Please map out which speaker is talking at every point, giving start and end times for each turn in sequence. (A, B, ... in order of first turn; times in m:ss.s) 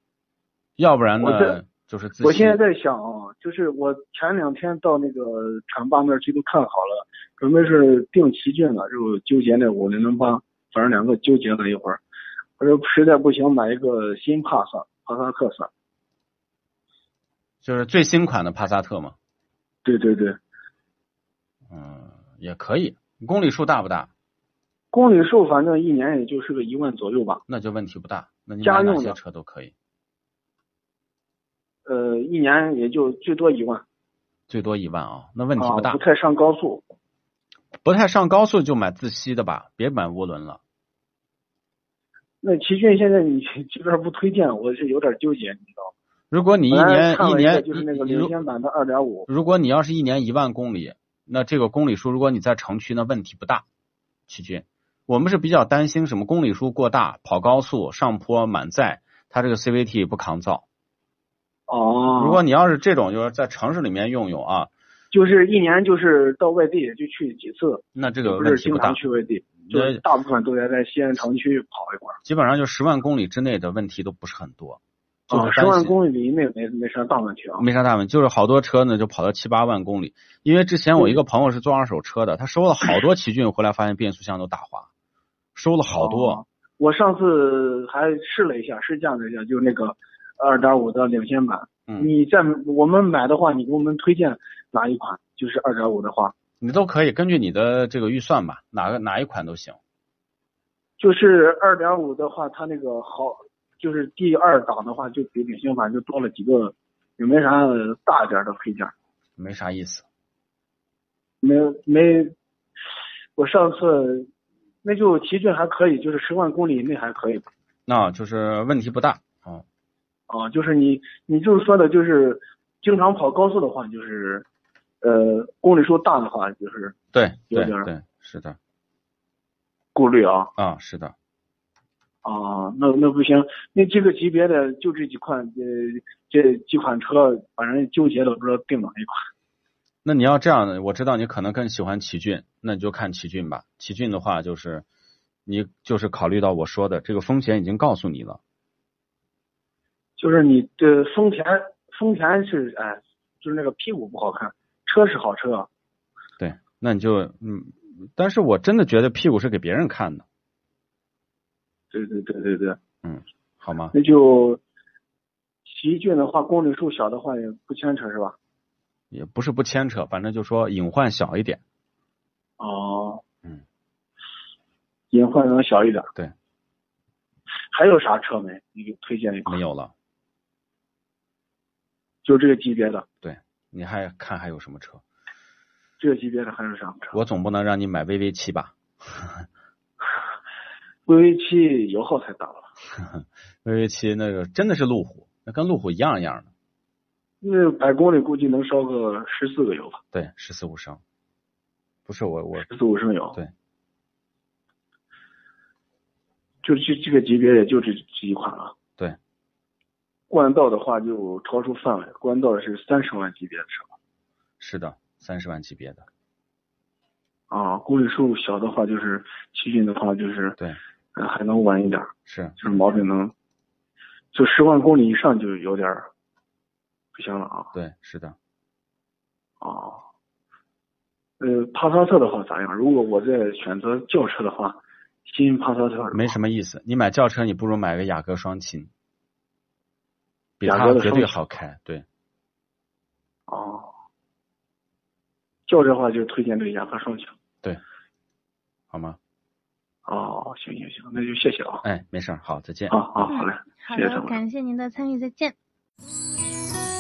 0:00.8-0:02.6 A
0:01.2-0:01.6 B
0:02.2-0:12.0 B
0:12.6-0:15.7 B
0:17.6-0:19.2 A
0:19.8-0:20.4 B
0:21.7-0:24.1 A
0:24.9-0:27.4 B
0:27.5-0:29.7 A
0:28.6-0:29.2 B
0:31.8-0:33.8 B
0:34.5-0:36.0 A
0:35.6-0:36.8 B
0:37.8-0:40.6 A
0:42.4-0:45.9 B
0:46.3-0:48.3 A
0:46.7-0:49.3 B
0:49.3-0:53.6 A
0:54.3-1:00.6 A
1:01.7-1:02.4 B
1:02.1-1:04.7 A
1:05.1-1:12.2 B
1:07.9-1:09.0 A
1:09.7-1:10.0 A
1:12.2-1:16.0 A
1:15.3-1:17.7 B
1:17.6-1:24.9 A
1:25.5-1:26.4 A
1:26.0-1:36.3 B
1:36.6-1:39.8 A
1:41.0-1:48.9 B
1:49.4-1:50.0 A
1:51.4-1:52.3 B
1:53.4-1:54.3 B
1:54.8-1:57.5 B
1:57.9-1:59.6 A
2:00.3-2:04.4 B
2:05.0-2:07.0 B
2:07.1-2:08.6 A
2:07.5-2:07.9 B
2:09.9-2:10.5 B
2:10.6-2:11.1 A
2:12.2-2:19.2 B
2:20.0-2:24.8 A
2:25.4-2:28.4 A
2:30.2-2:35.7 B
2:36.4-2:40.2 A
2:41.9-2:42.8 B
2:43.0-2:43.9 A
2:43.9-2:44.6 B
2:45.6-2:48.4 B
2:49.1-2:51.6 A
2:52.6-2:53.2 B
2:55.1-2:56.1 B
2:57.7-2:59.6 B
2:59.5-2:59.9 A
3:02.2-3:03.0 B
3:03.2-3:05.0 A
3:06.0-3:07.2 B
3:07.1-3:09.4 A
3:11.0-3:12.7 B
3:13.0-3:16.5 A
3:17.4-3:20.0 B
3:20.1-3:21.0 A
3:22.0-3:22.7 A
3:22.6-3:23.4 B
3:26.6-3:28.7 B
3:30.3-3:33.9 B
3:34.6-3:36.0 A
3:37.5-3:40.6 B
3:41.1-3:43.3 B
3:42.3-3:42.6 A
3:44.3-3:46.1 B
3:47.1-3:47.7 B
3:47.7-3:48.4 A
3:49.6-3:50.0 B
3:51.4-3:56.4 B
3:56.1-3:58.9 A
4:00.6-4:02.0 A
4:00.6-4:01.5 B
4:03.5-4:03.9 B
4:05.7-4:07.3 B
4:08.9-4:09.2 A
4:10.0-4:11.8 B
4:11.8-4:13.0 A
4:12.9-4:14.4 B
4:13.3-4:15.6 C